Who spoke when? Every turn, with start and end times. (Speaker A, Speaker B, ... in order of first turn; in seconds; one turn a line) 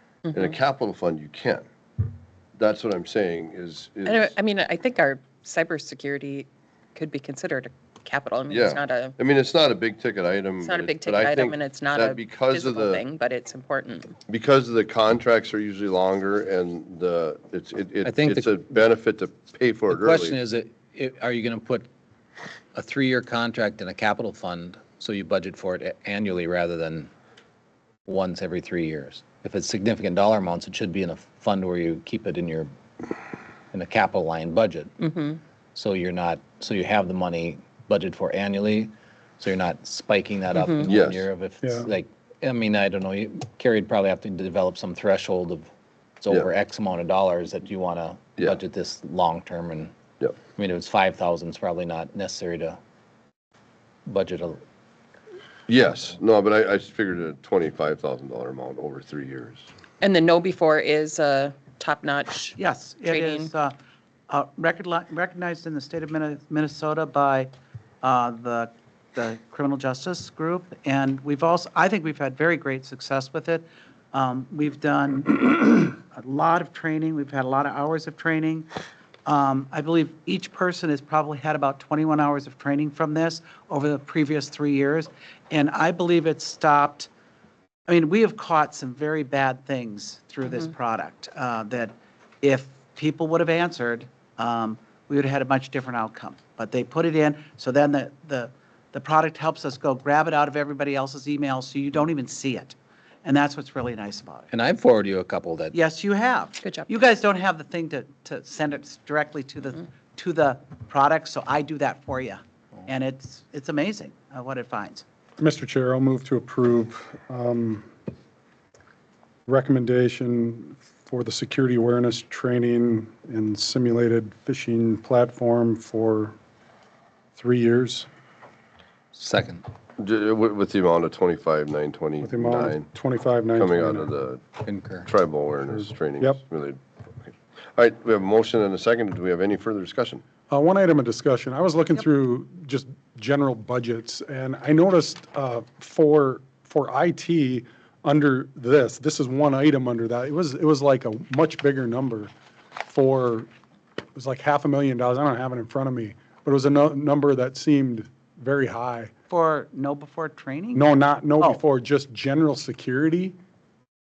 Speaker A: 0.2-0.5
Speaker B: 0.3-1.6
Speaker B: 2.6-4.3
Speaker A: 4.0-9.2
Speaker B: 8.5-13.0
Speaker A: 10.6-14.1
Speaker B: 14.3-20.4
Speaker C: 18.0-18.6
Speaker C: 19.9-21.9
Speaker C: 22.7-27.1
Speaker C: 28.0-32.7
Speaker C: 33.7-35.0
Speaker A: 35.0-35.4
Speaker C: 35.7-45.7
Speaker A: 40.6-40.9
Speaker B: 40.8-41.3
Speaker D: 41.6-41.9
Speaker C: 46.2-49.9
Speaker C: 50.5-52.8
Speaker C: 54.0-54.6
Speaker B: 55.7-59.7
Speaker A: 60.0-63.5
Speaker E: 62.6-63.7
Speaker E: 64.3-67.5
Speaker E: 68.0-78.7
Speaker E: 79.2-87.1
Speaker E: 87.9-104.5
Speaker C: 104.5-105.7
Speaker E: 105.7-115.0
Speaker A: 106.6-106.9
Speaker D: 115.4-117.8
Speaker D: 119.5-126.3
Speaker D: 127.4-128.1
Speaker C: 129.1-129.6
Speaker B: 130.0-132.8
Speaker D: 132.2-134.1
Speaker B: 133.6-134.4
Speaker C: 134.6-135.1
Speaker B: 135.0-140.2
Speaker D: 140.5-152.3
Speaker D: 152.8-153.5
Speaker D: 154.1-159.1
Speaker E: 159.3-161.6
Speaker D: 160.7-163.3